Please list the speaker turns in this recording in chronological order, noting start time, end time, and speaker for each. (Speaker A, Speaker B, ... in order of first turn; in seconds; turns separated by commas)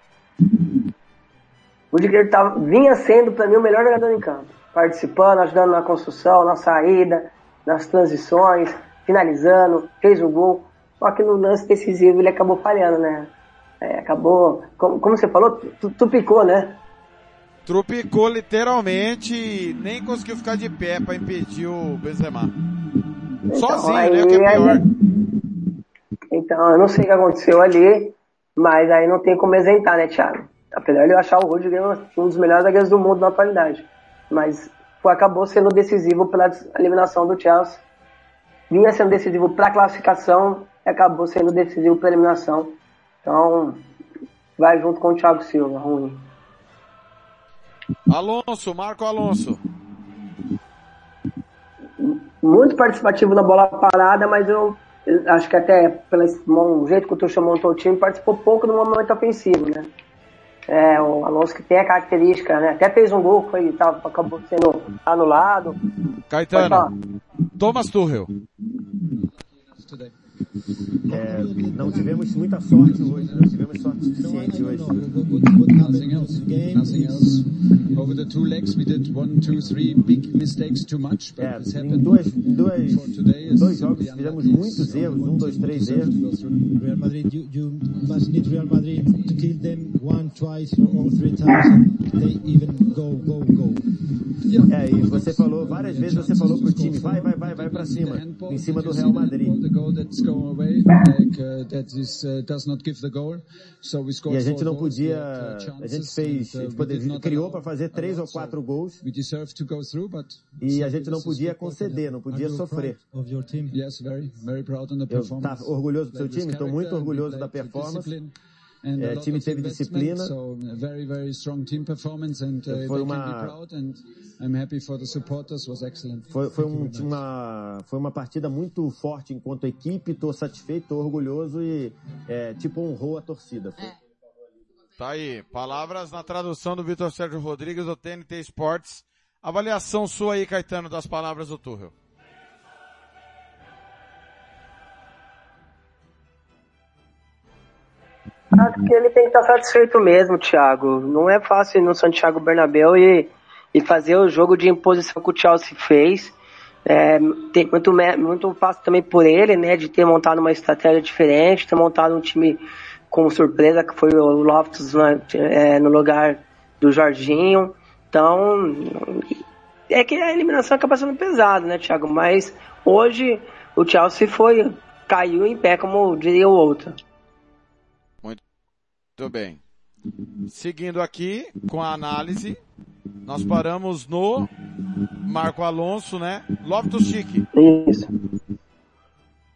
Speaker A: 1.9-16.8, Speaker B: 17.7-22.5, Speaker A: 23.5-24.8, Speaker B: 23.5-24.8, Speaker A: 26.3-37.8, Speaker A: 38.7-43.8, Speaker A: 44.6-46.3, Speaker B: 48.1-49.6, Speaker A: 52.0-59.9, Speaker A: 60.7-65.8, Speaker B: 66.3-66.9, Speaker A: 66.5-66.9, Speaker B: 67.6-68.3, Speaker C: 69.7-70.1, Speaker D: 71.1-73.5, Speaker E: 71.1-75.0, Speaker C: 72.9-73.5, Speaker D: 74.1-77.4, Speaker C: 75.3-86.8, Speaker E: 81.4-86.2, Speaker D: 86.7-93.8, Speaker C: 94.5-112.1, Speaker E: 94.7-99.6, Speaker E: 104.3-109.0, Speaker E: 110.6-113.0, Speaker D: 111.9-113.8, Speaker C: 113.7-127.2, Speaker E: 115.1-118.1, Speaker E: 119.0-120.3, Speaker E: 122.7-123.5, Speaker E: 126.3-133.9, Speaker B: 135.0-141.9, Speaker A: 148.5-169.3, Speaker A: 169.9-177.0, Speaker B: 179.2-179.6, Speaker B: 180.5-182.6, Speaker B: 183.3-184.5, Speaker B: 185.2-187.5, Speaker A: 187.5-188.1